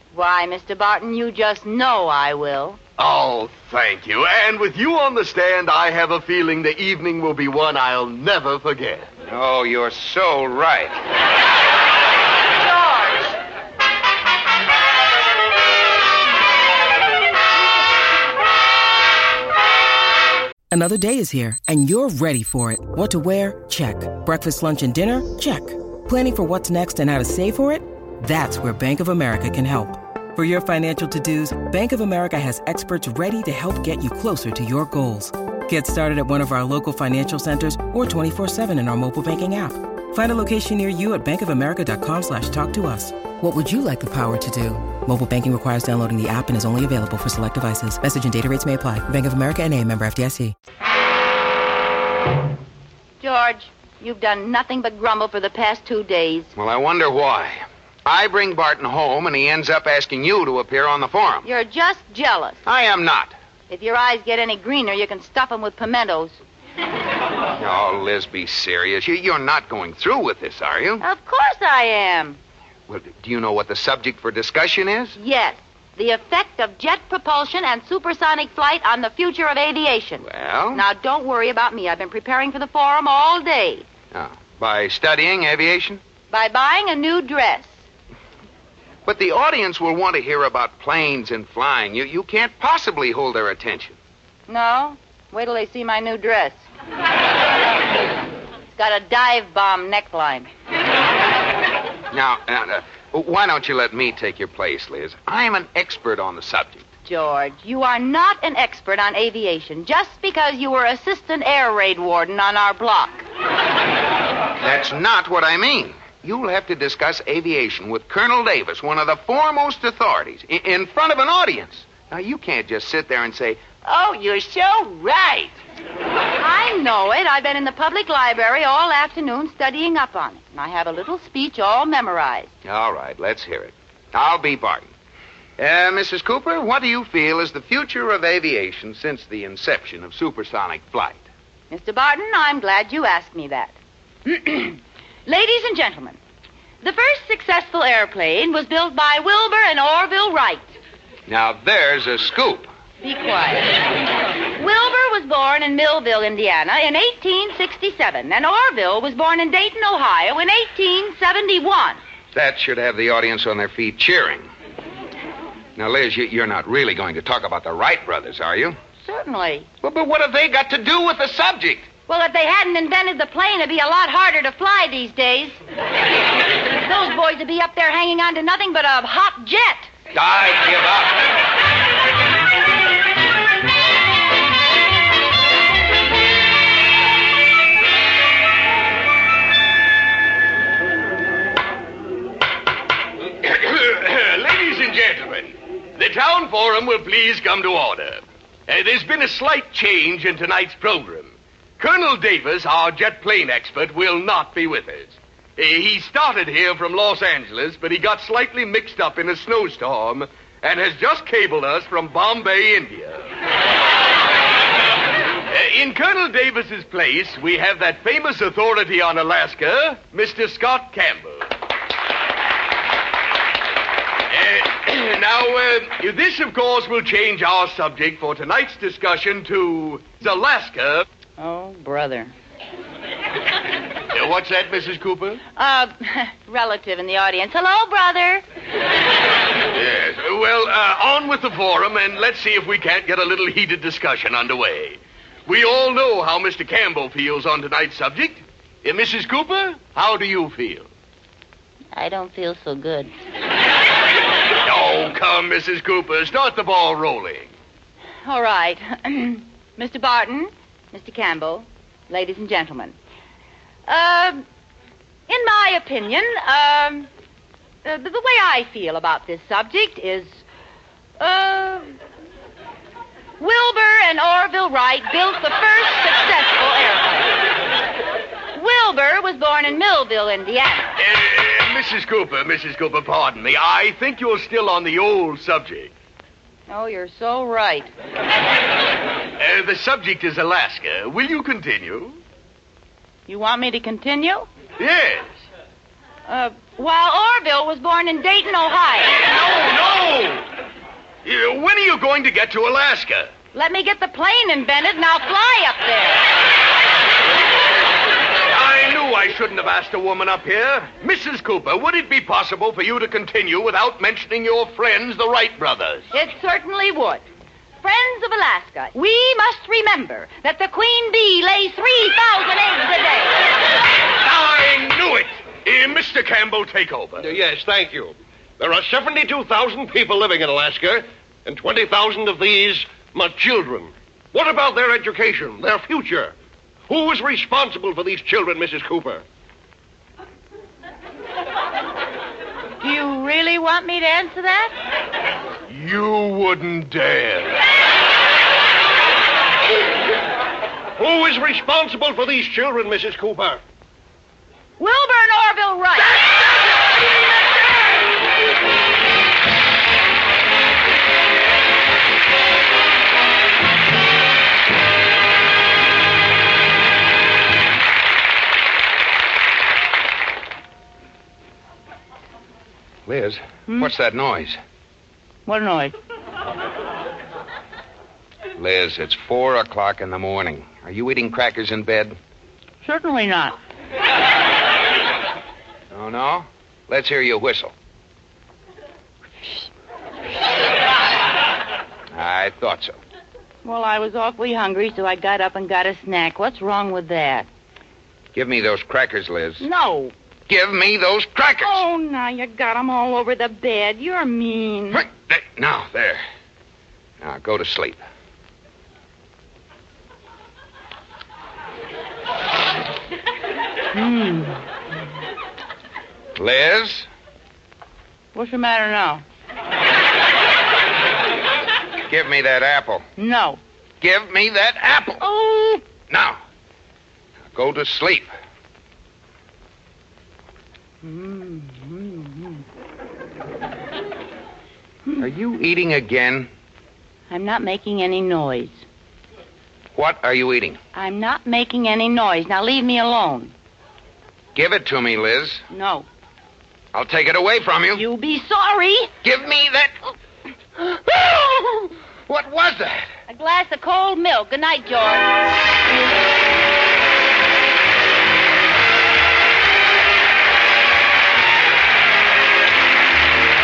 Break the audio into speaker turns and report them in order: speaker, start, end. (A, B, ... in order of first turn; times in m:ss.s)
0:00.1-0:02.8 A
0:03.0-0:09.1 B
0:09.3-0:11.0 C
0:20.7-0:50.5 D
0:53.2-0:56.5 A
0:56.5-1:01.4 C
1:01.4-1:02.6 A
1:02.6-1:03.3 C
1:03.7-1:06.4 A
1:07.6-1:11.0 C
1:11.0-1:12.4 A
1:12.9-1:15.2 C
1:15.2-1:23.8 A
1:20.2-1:20.8 C
1:24.1-1:26.0 C
1:26.3-1:27.8 A
1:29.0-1:34.0 C
1:34.5-1:36.6 A
1:38.7-1:40.5 A
1:42.1-1:46.8 C
1:47.0-1:53.2 A
1:54.6-2:03.6 C
2:03.8-2:05.5 A
2:06.4-2:12.5 A
2:12.6-2:14.9 C
2:15.6-2:21.2 C
2:21.7-2:23.7 A
2:24.2-2:26.2 A
2:26.8-2:30.7 A
2:31.3-2:32.7 C
2:33.0-2:33.7 A
2:34.6-2:42.0 A
2:42.3-2:44.5 C
2:45.8-2:48.8 C
2:49.0-2:49.7 A
2:49.8-2:51.9 C
2:52.1-2:55.6 A
2:56.8-2:59.9 A
3:00.1-3:01.2 C
3:13.3-3:33.3 B
3:35.5-3:41.5 B
3:44.3-3:51.0 B
3:51.4-3:52.3 A
3:54.1-3:55.4 B
3:55.6-3:58.4 A
3:59.7-4:10.9 B
4:11.9-4:13.1 A
4:14.6-4:17.5 B
4:18.2-4:23.0 A
4:23.9-4:24.4 A
4:25.3-4:27.1 A
4:27.8-4:30.4 A
4:31.2-4:32.0 A
4:33.4-4:37.4 A
4:38.5-4:41.0 A
4:41.0-4:45.9 B
4:46.7-4:47.9 A
4:49.4-4:52.2 B
4:53.3-4:54.5 A
4:54.8-4:55.3 B
4:56.3-4:59.2 A
4:59.2-5:00.5 B
5:01.2-5:03.3 B
5:03.5-5:06.2 A
5:08.5-5:16.1 B
5:16.1-5:17.2 A
5:17.8-5:23.4 A
5:24.2-5:27.3 B
5:27.2-5:36.3 E
5:36.9-5:39.2 E
5:42.8-5:44.7 A
5:45.7-5:47.6 B
5:51.0-5:53.6 E
5:54.8-5:56.3 A
6:13.0-6:14.6 C
6:15.4-6:15.9 A
6:18.6-6:22.2 C
6:22.8-6:23.6 A
6:25.9-6:27.7 C
6:32.1-6:33.0 C
6:33.6-6:37.5 A
6:38.3-6:39.6 C
6:39.6-6:40.1 A
6:40.5-6:41.8 C
6:41.6-6:45.0 A
6:44.9-6:46.2 C
6:47.2-6:48.0 C
6:53.9-6:54.6 A
6:56.3-6:57.1 C
6:58.3-6:59.2 A
7:02.1-7:03.1 C
7:03.2-7:03.6 A
7:04.0-7:05.2 C
7:05.2-7:05.8 A
7:06.1-7:06.4 C
7:07.5-7:08.3 C
7:11.0-7:12.6 A
7:15.2-7:16.5 C
7:17.3-7:18.8 A
7:19.9-7:20.8 C
7:20.9-7:23.5 A
7:24.5-7:25.6 C
7:25.7-7:26.0 A
7:26.9-7:28.0 C
7:27.9-7:29.1 A
7:29.2-7:30.1 C
7:30.8-7:33.1 C
7:33.3-7:35.3 A